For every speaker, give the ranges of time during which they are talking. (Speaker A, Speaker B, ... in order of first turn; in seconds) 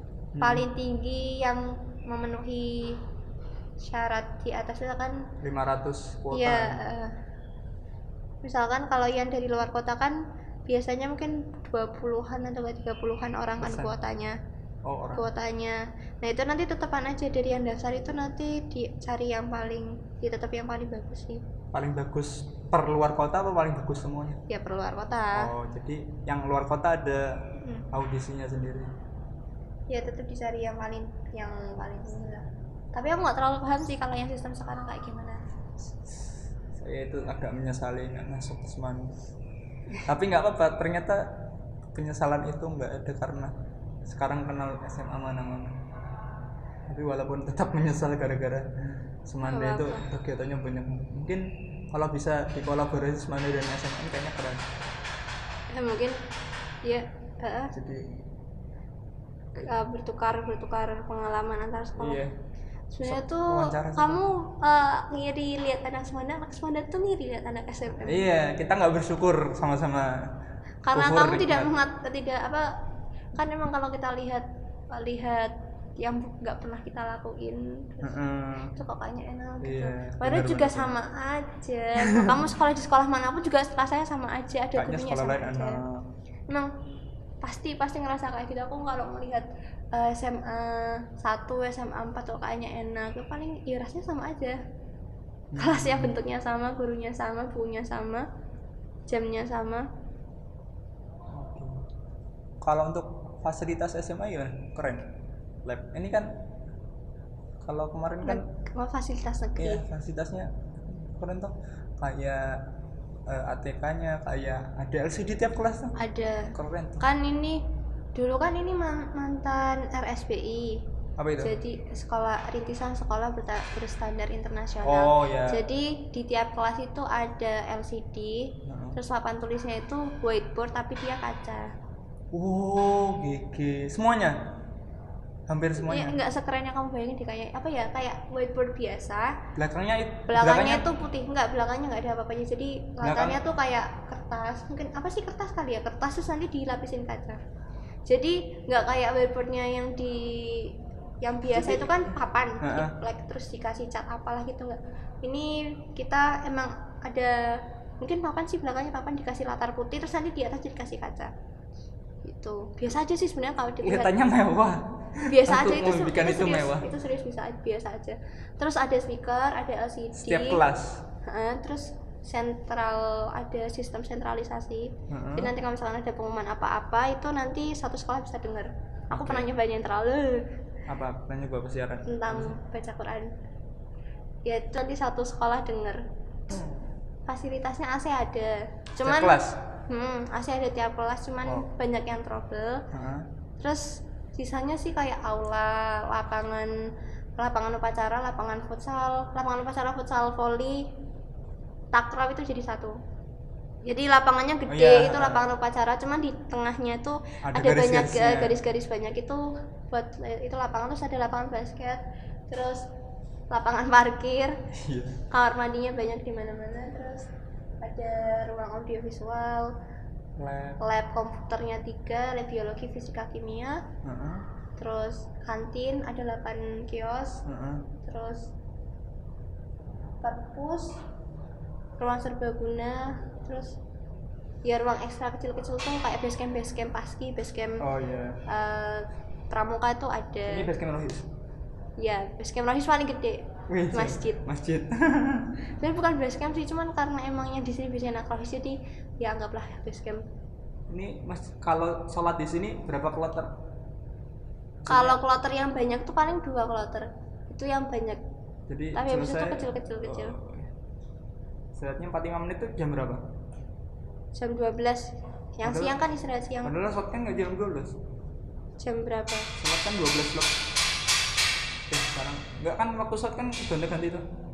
Speaker A: 0.3-0.7, 5.4-6.8, 13.6-13.9, 14.8-15.3, 21.7-24.4, 25.3-28.9, 36.8-39.1, 40.0-41.3, 41.9-43.5, 44.0-45.9, 46.9-54.7, 57.7-58.0, 62.0-62.3, 63.0-64.2, 68.0-70.2, 70.9-71.7, 78.0-78.7, 79.6-80.9, 82.0-82.5, 84.8-86.0, 95.5-96.1, 101.3-101.8, 102.6-105.1, 105.6-106.3, 107.6-108.5, 109.6-112.7, 113.3-116.0, 116.5-117.0, 121.2-121.6, 124.8-125.6, 128.7-129.0, 132.3-134.4, 135.5-136.2, 139.6-140.9, 143.0-143.4, 151.5-152.1, 152.6-152.9, 163.8-166.9, 170.2-171.0, 175.1-175.5, 179.1-179.5, 180.9-182.5, 186.5-186.9, 189.0-189.6, 192.9-193.3, 204.7-205.5, 207.4-208.6, 214.7-215.2, 220.4-220.8, 224.0-224.4, 227.4-227.9, 237.8-238.4, 240.4-241.3, 243.7-245.6, 250.9-253.5, 254.8-255.2, 258.7-260.7, 261.8-263.2, 265.6-266.0, 266.6-267.9, 269.6-270.5, 271.9-274.2
Speaker B: 0.4-3.0, 3.8-5.2, 6.3-7.1, 8.4-14.3, 15.1-21.4, 24.5-25.5, 27.6-27.9, 29.9-35.4, 49.4-50.0, 55.7-56.2, 56.8-57.7, 59.5-62.2, 62.9-68.3, 70.8-72.7, 73.3-78.2, 78.7-85.8, 87.4-94.6, 95.5-98.2, 99.1-99.9, 108.2-109.8, 116.0-117.6, 118.1-120.8, 121.4-131.7, 135.8-139.4, 140.3-147.4, 148.1-161.3, 162.2-164.1, 165.3-170.6, 171.2-180.4, 182.1-183.3, 184.4-186.0, 187.3-192.8, 193.6-196.7, 197.4-200.9, 201.9-203.0, 203.8-212.8, 213.5-214.6, 215.3-217.3, 217.8-219.7, 220.8-223.8, 224.8-227.4, 228.0-228.5, 230.2-231.0, 232.0-233.8, 234.6-237.8, 238.5-240.7, 242.0-244.4, 245.8-250.2, 254.9-258.2, 258.9-260.3, 264.3-266.7, 268.8-269.5